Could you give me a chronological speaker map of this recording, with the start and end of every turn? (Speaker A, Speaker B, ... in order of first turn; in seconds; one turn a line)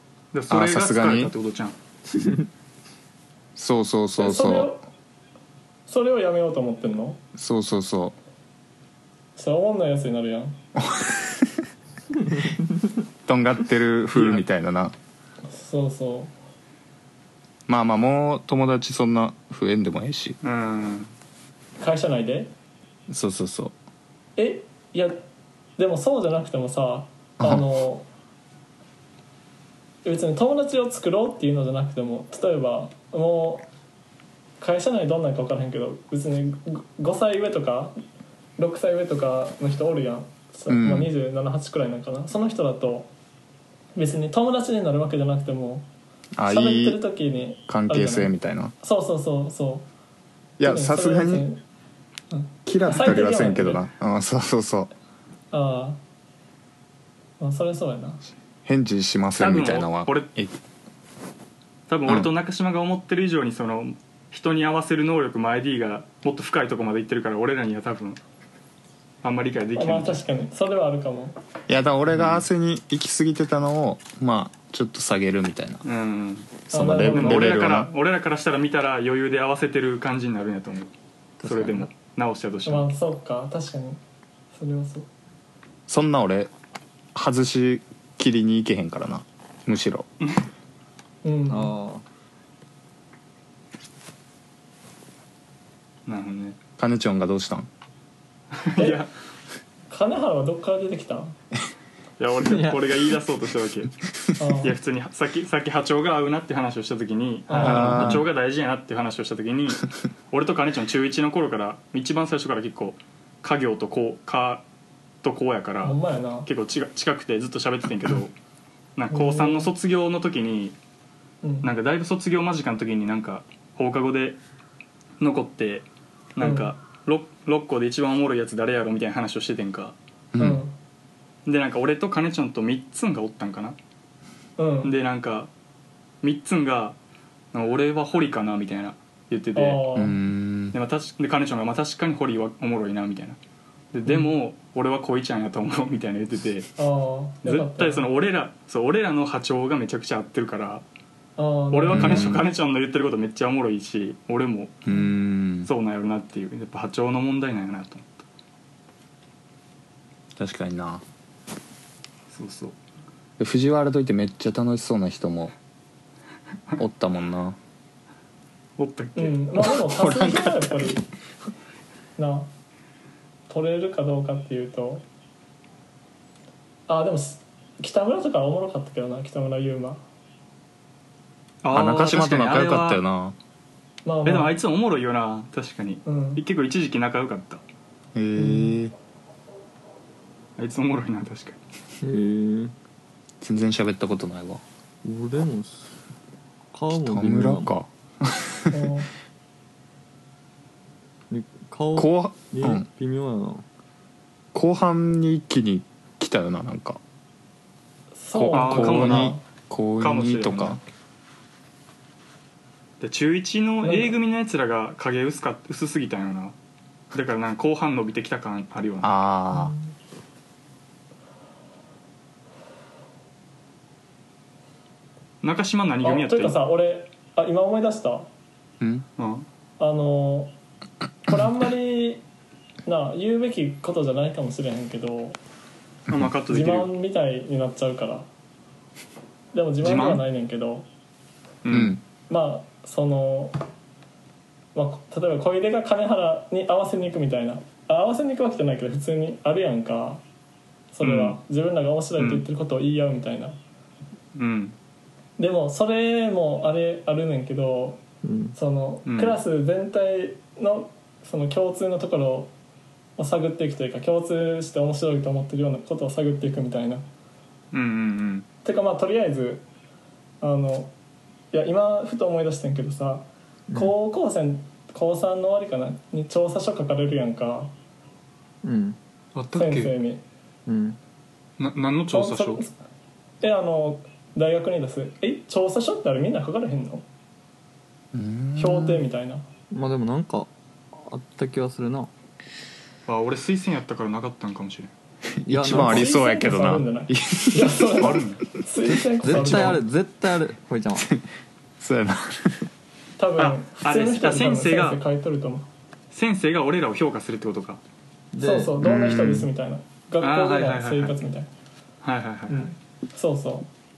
Speaker A: 0.3-1.8
Speaker B: 0.5-1.3
Speaker B: 3.5-4.7
Speaker C: 4.2-4.8
Speaker C: 5.9-7.2
Speaker B: 7.3-8.2
Speaker C: 9.3-10.6
Speaker B: 10.9-11.2
Speaker B: 13.2-14.9
Speaker A: 14.1-14.4
Speaker C: 15.5-16.3
Speaker B: 17.7-20.4
Speaker A: 20.4-21.1
Speaker C: 21.8-22.5
Speaker B: 23.1-23.7
Speaker C: 24.4-25.2
Speaker C: 25.8-28.1
Speaker B: 27.4-27.7
Speaker C: 30.0-33.7
Speaker C: 34.6-38.0
Speaker C: 38.6-43.1
Speaker B: 40.7-41.1
Speaker C: 43.9-45.9
Speaker B: 46.4-47.0
Speaker C: 46.4-49.9
Speaker B: 47.7-48.7
Speaker B: 50.6-51.5
Speaker C: 50.6-51.6
Speaker C: 52.3-53.8
Speaker B: 52.6-54.9
Speaker C: 55.5-56.0
Speaker C: 57.4-58.2
Speaker B: 58.6-60.6
Speaker A: 59.3-60.3
Speaker A: 61.9-68.2
Speaker B: 62.0-62.3
Speaker A: 69.2-70.2
Speaker C: 69.7-71.3
Speaker B: 71.7-75.8
Speaker A: 72.1-72.4
Speaker A: 75.8-76.6
Speaker B: 76.7-77.9
Speaker C: 76.7-77.9
Speaker A: 77.1-82.9
Speaker D: 81.4-81.9
Speaker C: 82.6-84.0
Speaker C: 84.5-85.1
Speaker B: 85.9-86.5
Speaker B: 87.1-90.0
Speaker C: 91.2-91.7
Speaker D: 91.5-92.0
Speaker A: 96.1-96.6
Speaker B: 96.8-97.7
Speaker A: 98.6-99.1
Speaker C: 99.9-101.4
Speaker A: 102.2-104.0
Speaker D: 102.4-102.8
Speaker C: 104.4-104.7
Speaker A: 104.6-114.6
Speaker C: 107.5-108.1
Speaker B: 107.6-108.2
Speaker D: 107.8-108.2
Speaker A: 115.2-118.3
Speaker C: 115.8-116.5
Speaker A: 119.0-120.8
Speaker C: 119.1-119.7
Speaker C: 121.4-121.7
Speaker A: 121.6-124.4
Speaker A: 125.2-130.0
Speaker C: 126.4-126.7
Speaker B: 130.3-130.6
Speaker C: 130.4-130.8
Speaker A: 131.4-133.8
Speaker C: 134.6-134.9
Speaker A: 134.8-135.5
Speaker A: 136.2-137.0
Speaker A: 137.5-139.9
Speaker C: 139.5-140.1
Speaker B: 139.9-140.7
Speaker A: 140.7-143.4
Speaker A: 143.9-146.7
Speaker C: 146.8-148.1
Speaker A: 147.4-150.8
Speaker C: 151.3-152.2
Speaker A: 151.7-154.8
Speaker B: 151.9-152.4
Speaker B: 154.9-155.7
Speaker A: 155.6-158.2
Speaker B: 160.4-161.0
Speaker A: 162.3-162.8
Speaker B: 163.4-165.5
Speaker B: 166.8-167.6
Speaker A: 168.8-169.4
Speaker C: 169.2-171.0
Speaker B: 169.6-171.0
Speaker C: 172.2-172.5
Speaker C: 173.5-175.1
Speaker C: 176.9-180.0
Speaker A: 181.6-183.0
Speaker B: 181.7-183.3
Speaker C: 184.0-184.5
Speaker A: 184.2-187.6
Speaker C: 186.0-186.4
Speaker B: 188.1-188.9
Speaker C: 188.4-188.7
Speaker A: 190.6-191.6
Speaker D: 192.0-192.7
Speaker B: 193.4-194.6
Speaker D: 195.0-195.9
Speaker D: 196.7-197.7
Speaker B: 197.0-198.6
Speaker C: 198.7-199.1
Speaker D: 201.3-203.6
Speaker B: 201.9-202.8
Speaker B: 204.5-207.0
Speaker C: 208.1-209.4
Speaker B: 208.3-210.8
Speaker A: 208.5-209.3
Speaker A: 210.0-210.8
Speaker A: 213.0-216.6
Speaker C: 213.8-214.2
Speaker A: 217.1-219.1
Speaker B: 219.0-219.7
Speaker C: 219.5-219.9
Speaker A: 225.4-226.6
Speaker C: 226.0-228.3
Speaker B: 228.8-229.1
Speaker A: 229.2-229.5
Speaker C: 229.8-230.5
Speaker C: 231.3-232.2
Speaker C: 232.8-235.4
Speaker A: 236.1-236.9
Speaker C: 236.5-238.3
Speaker C: 239.5-240.9
Speaker A: 239.8-240.2
Speaker A: 241.6-242.0
Speaker B: 241.7-242.0
Speaker C: 242.3-243.6
Speaker C: 244.7-250.2
Speaker C: 250.9-253.6
Speaker A: 251.0-251.4
Speaker A: 252.2-252.4
Speaker A: 254.3-254.7
Speaker C: 255.4-258.0
Speaker D: 258.2-258.6
Speaker C: 258.5-262.5
Speaker A: 259.1-259.4
Speaker C: 263.2-267.0
Speaker A: 267.7-268.5
Speaker C: 268.6-269.6
Speaker C: 270.4-270.9
Speaker C: 271.5-277.7
Speaker D: 273.7-273.9
Speaker D: 278.6-279.0
Speaker A: 279.3-279.9
Speaker C: 279.5-280.2
Speaker D: 280.7-281.0
Speaker A: 281.6-282.6
Speaker C: 282.1-282.8
Speaker C: 283.4-287.0
Speaker B: 288.1-289.1
Speaker C: 288.6-289.4
Speaker D: 289.7-292.1
Speaker A: 293.1-294.9
Speaker B: 295.4-298.3
Speaker D: 295.4-296.1
Speaker C: 295.7-299.8
Speaker A: 298.0-298.4
Speaker D: 299.2-301.1
Speaker B: 300.9-301.2
Speaker B: 301.8-302.6
Speaker C: 303.2-305.7
Speaker A: 303.4-305.0
Speaker A: 306.1-307.8
Speaker D: 308.3-308.8
Speaker C: 308.4-311.5
Speaker B: 308.8-309.5
Speaker A: 310.2-311.2
Speaker A: 312.0-312.7
Speaker C: 312.5-313.7